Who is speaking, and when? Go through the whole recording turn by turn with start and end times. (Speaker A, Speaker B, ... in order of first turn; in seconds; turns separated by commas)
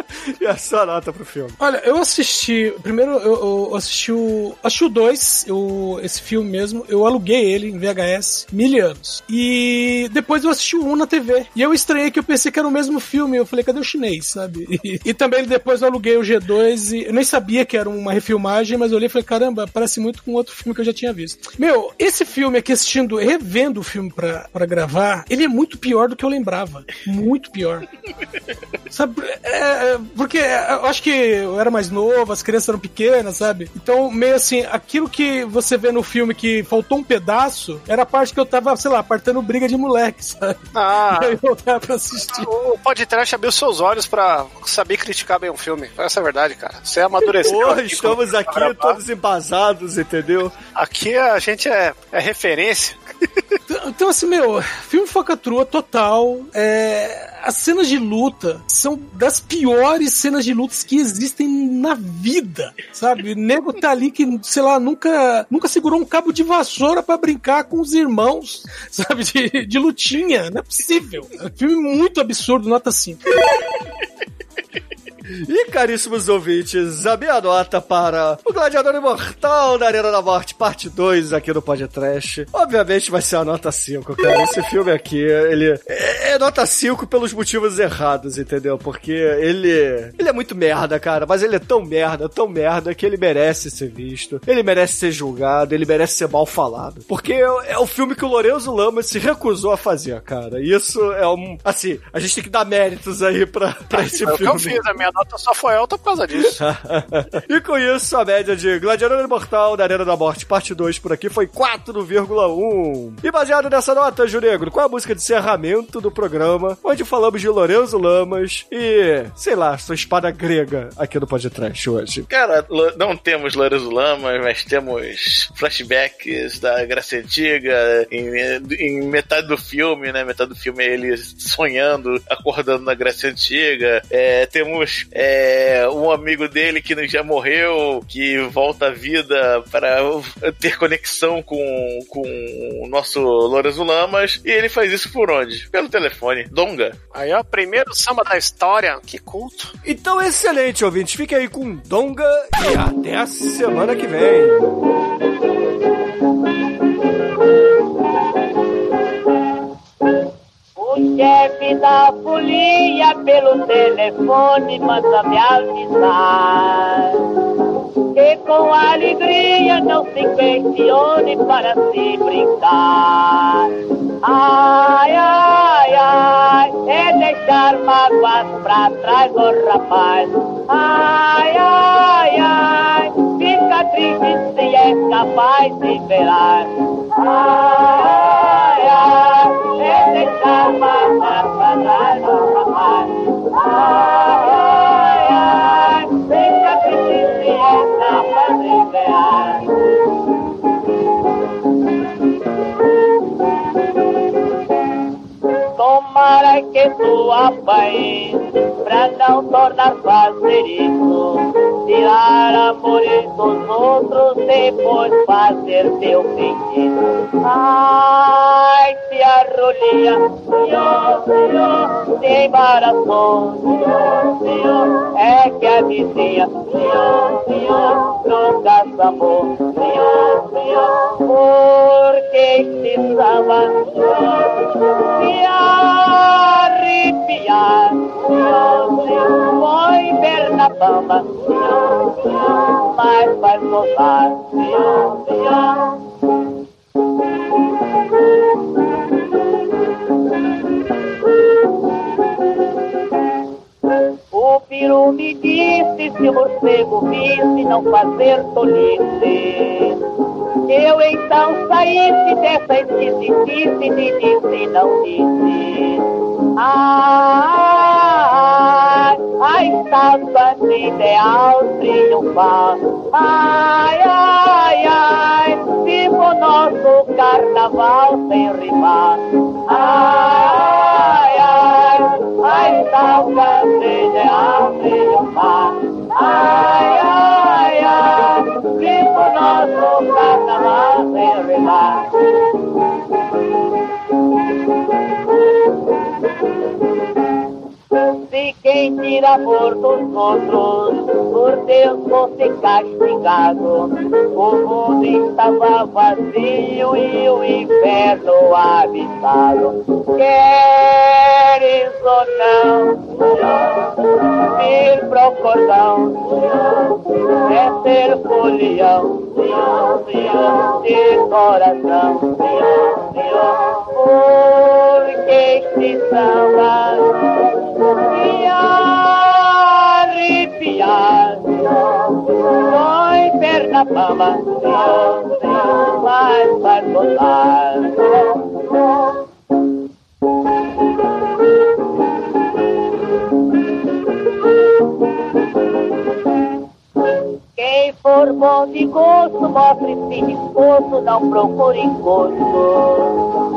Speaker A: 0.3-1.6, Speaker B: 1.6-27.9, Speaker B: 28.9-40.6, Speaker C: 40.7-41.4, Speaker B: 41.1-42.5, Speaker C: 42.3-49.0, Speaker A: 47.4-50.5, Speaker C: 50.8-53.0, Speaker B: 53.7-73.2, Speaker A: 75.3-104.8, Speaker C: 103.9-106.6, Speaker A: 106.4-122.3, Speaker D: 122.3-147.0, Speaker C: 147.1-149.7, Speaker A: 149.8-154.7, Speaker E: 160.8-167.2, Speaker E: 168.2-173.7, Speaker E: 174.2-199.7, Speaker E: 205.8-246.0, Speaker E: 254.3-260.0, Speaker E: 260.7-266.0, Speaker E: 266.6-292.1, Speaker E: 298.2-339.2, Speaker E: 347.6-353.2